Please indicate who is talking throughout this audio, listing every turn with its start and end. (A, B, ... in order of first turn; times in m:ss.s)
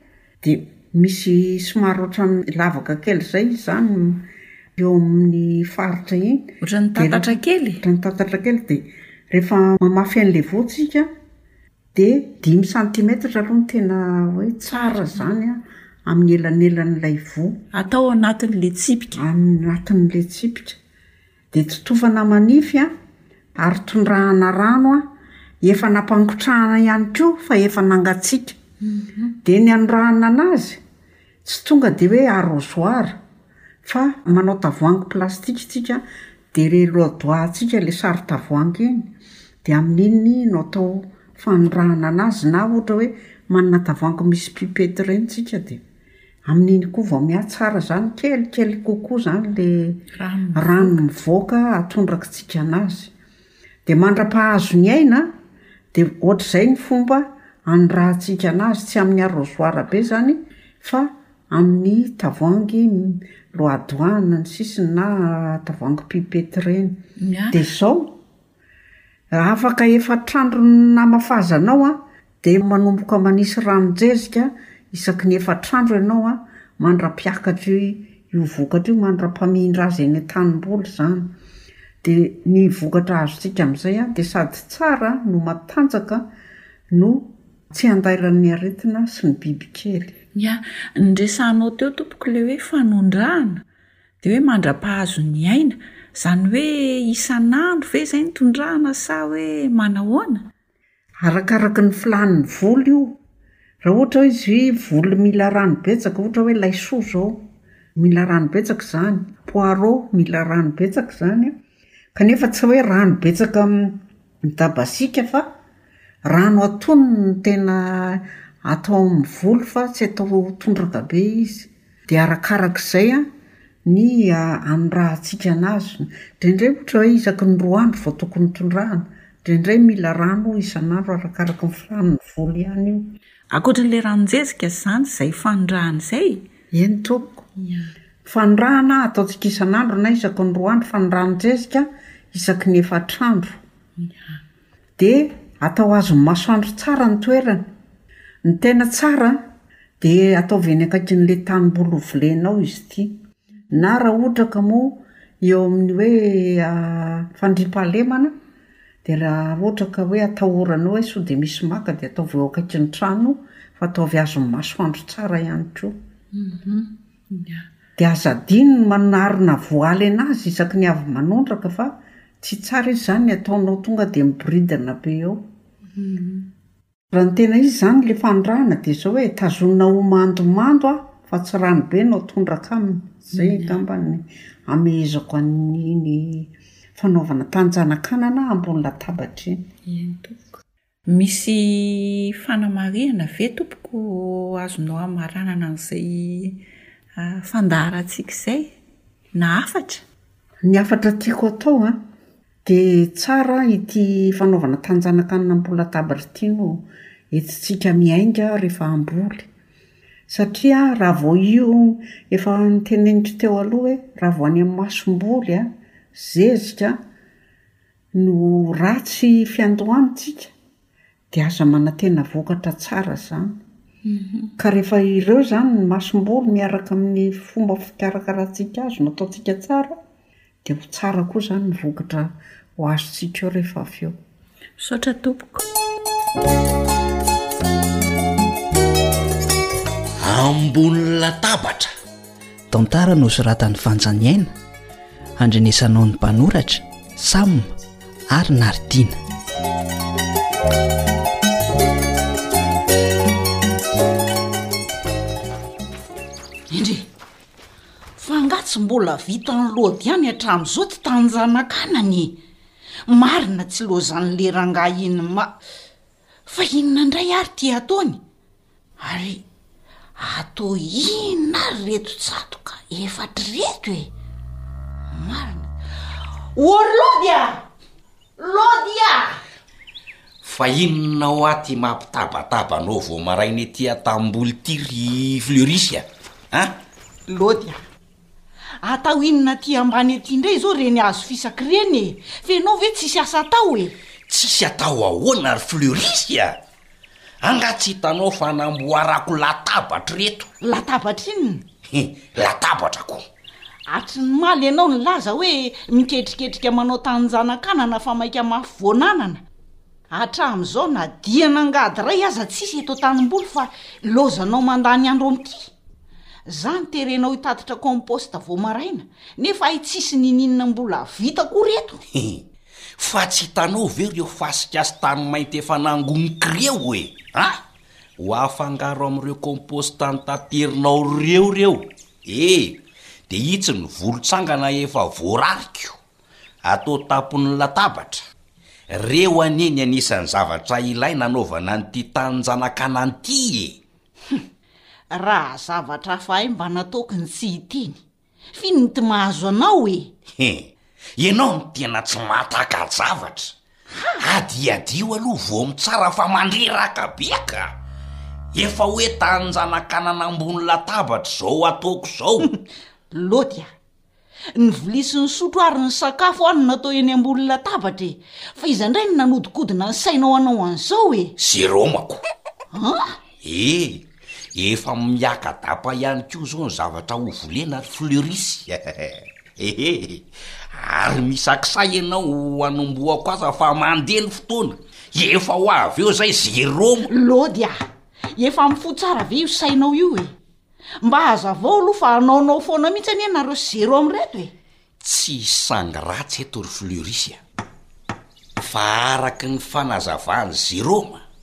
0:00.4-0:04.2 A
0:04.8-0:11.1 A
0:06.6-0:07.8 B
0:11.9-0:17.6 A
0:14.7-0:15.4 B
0:17.7-0:19.2 B
0:19.1-0:20.8 A
0:21.5-0:22.9 A
0:23.6-0:25.1 A
0:25.6-0:28.6 A
0:28.8-0:29.4 B
0:29.4-0:30.8 A
0:31.4-0:33.2 A
0:33.8-0:39.1 A
0:39.6-0:45.8 A
0:46.4-0:50.0 A
0:50.1-0:51.0 B
0:50.5-0:53.1 A
0:53.8-0:55.3 A
0:55.9-1:07.0 A
1:07.2-1:07.7 B
1:07.5-1:08.2 A
1:09.3-1:21.3 A
1:22.0-1:26.3 A
1:26.9-1:30.1 A
1:30.3-1:33.6 B
1:34.2-1:40.5 B
1:41.2-1:43.2 A
1:43.8-1:51.6 A
1:52.1-1:55.5 A
1:56.2-2:03.3 A
2:03.8-2:13.1 A
2:13.5-2:16.4 B
2:16.7-2:17.4 A
2:17.6-2:17.9 B
2:18.2-2:23.6 A
2:25.0-2:27.7 A
2:28.4-2:29.4 A
2:30.0-2:33.2 A
2:33.7-2:38.4 A
2:39.0-2:46.0 A
2:46.3-2:47.6 B
2:48.0-2:55.4 A
2:56.0-2:56.5 B
2:57.1-3:09.6 A
3:03.3-3:03.8 B
3:09.8-3:10.5 B
3:11.1-3:16.6 B
3:17.2-3:18.7 B
3:19.3-3:20.0 B
3:20.6-3:22.0 A
3:22.6-3:29.5 A
3:30.3-3:37.0 A
3:38.1-3:40.5 A
3:41.3-3:43.6 A
3:44.0-3:44.5 B
3:44.6-3:50.0 A
3:50.6-3:54.2 A
3:54.8-3:55.6 B
4:00.2-4:01.9 C
4:02.7-4:04.5 D
4:05.4-4:07.7 D
4:08.3-4:09.2 D
4:16.7-4:17.1 E
4:18.2-4:22.4 E
4:23.1-4:25.5 E
4:26.5-4:28.2 E
4:29.0-4:29.4 E
4:30.2-4:34.1 E
4:35.1-4:35.7 E
4:36.5-4:37.6 E
4:38.4-4:39.4 E
4:40.4-4:46.7 C
4:47.3-4:47.8 E
4:48.8-4:53.9 E
4:54.3-4:56.6 C
4:57.4-5:00.5 C
5:00.6-5:01.6 E
5:01.9-5:03.2 C
5:03.9-5:09.4 E
5:10.1-5:15.7 E
5:16.5-5:22.0 E
5:22.1-5:22.4 C
5:23.0-5:27.6 C
5:28.2-5:36.0 C
5:36.6-5:38.2 C
5:38.9-5:43.8 C
5:45.1-5:48.0 E
5:48.5-5:50.1 E
5:50.3-5:53.5 C
5:54.2-5:57.8 C
5:58.5-6:02.5 C
6:03.1-6:03.7 E
6:04.5-6:11.3 E
6:11.4-6:12.2 C
6:12.7-6:13.2 E
6:13.4-6:27.1 C
6:27.1-6:27.8 E
6:28.3-6:30.3 E
6:31.0-6:34.5 E
6:35.0-6:37.4 C
6:38.6-6:41.2 C